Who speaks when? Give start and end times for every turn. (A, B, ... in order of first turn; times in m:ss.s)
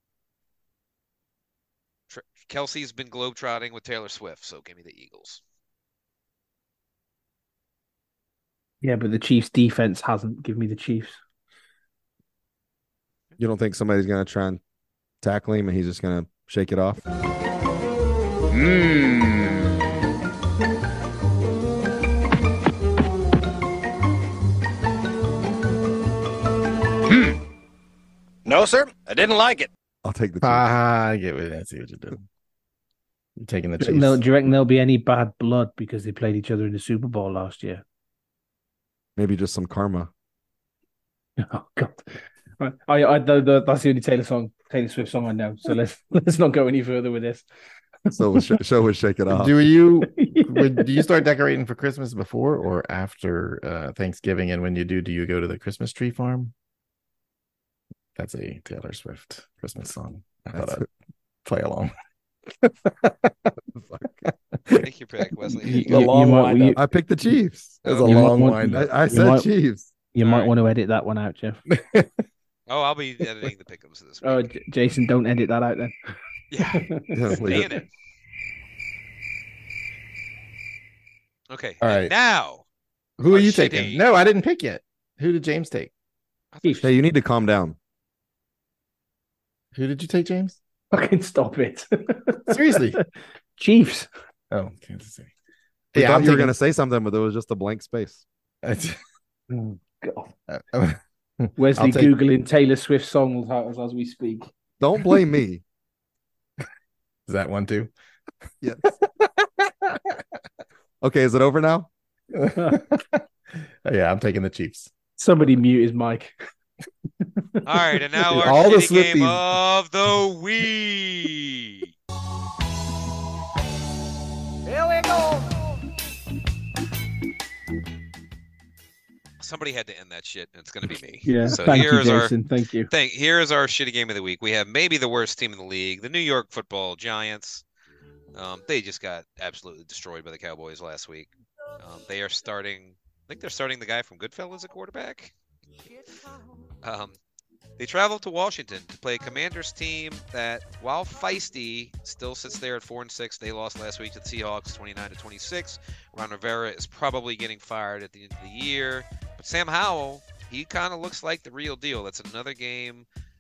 0:02.1-0:05.4 A
0:08.8-0:11.2 B
0:13.4-0:14.6 C
0:15.2-0:17.0 C
0:18.5-0:19.7 D
0:27.1-0:27.4 D
0:28.4-0:29.7 D
0:30.0-0:30.7 C
0:30.4-0:32.2 E
0:33.4-0:34.2 E
0:33.8-0:37.8 B
0:39.2-0:40.1 C
0:41.4-0:47.4 B
0:48.1-0:49.6 C
0:49.3-0:56.5 E
0:50.2-0:50.9 B
0:58.2-1:00.9 E
1:00.5-1:00.9 C
1:01.4-1:01.9 E
1:02.6-1:03.5 E
1:03.8-1:04.2 C
1:04.8-1:06.2 A
1:05.6-1:06.8 B
1:06.8-1:09.9 C
1:07.8-1:08.2 A
1:07.8-1:08.9 E
1:08.0-1:09.5 B
1:10.1-1:11.6 B
1:10.2-1:10.5 A
1:11.7-1:12.2 E
1:12.7-1:14.5 A
1:14.2-1:16.0 B
1:16.5-1:17.9 A
1:16.8-1:17.8 B
1:17.1-1:17.7 C
1:21.5-1:22.6 A
1:21.8-1:22.1 E
1:23.2-1:25.9 E
1:23.3-1:24.0 A
1:26.5-1:27.0 A
1:26.8-1:27.8 C
1:29.8-1:30.6 E
1:30.9-1:33.0 B
1:32.5-1:33.0 E
1:33.6-1:34.1 B
1:34.5-1:35.3 E
1:35.9-1:36.6 E
1:36.0-1:38.2 C
1:38.6-1:39.0 E
1:39.5-1:40.3 B
1:40.5-1:42.1 E
1:41.6-1:44.5 B
1:44.8-1:45.6 C
1:47.3-1:47.9 E
1:48.8-1:50.2 E
1:51.0-1:51.9 C
1:52.4-1:53.2 E
1:53.8-1:54.9 E
1:55.2-1:56.3 B
1:57.6-1:58.5 B
1:57.6-2:01.9 A
1:58.3-1:59.4 E
2:09.4-2:12.4 A
2:11.2-2:12.9 B
2:12.9-2:17.6 A
2:18.3-2:25.3 A
2:26.8-2:27.2 A
2:27.8-2:43.1 A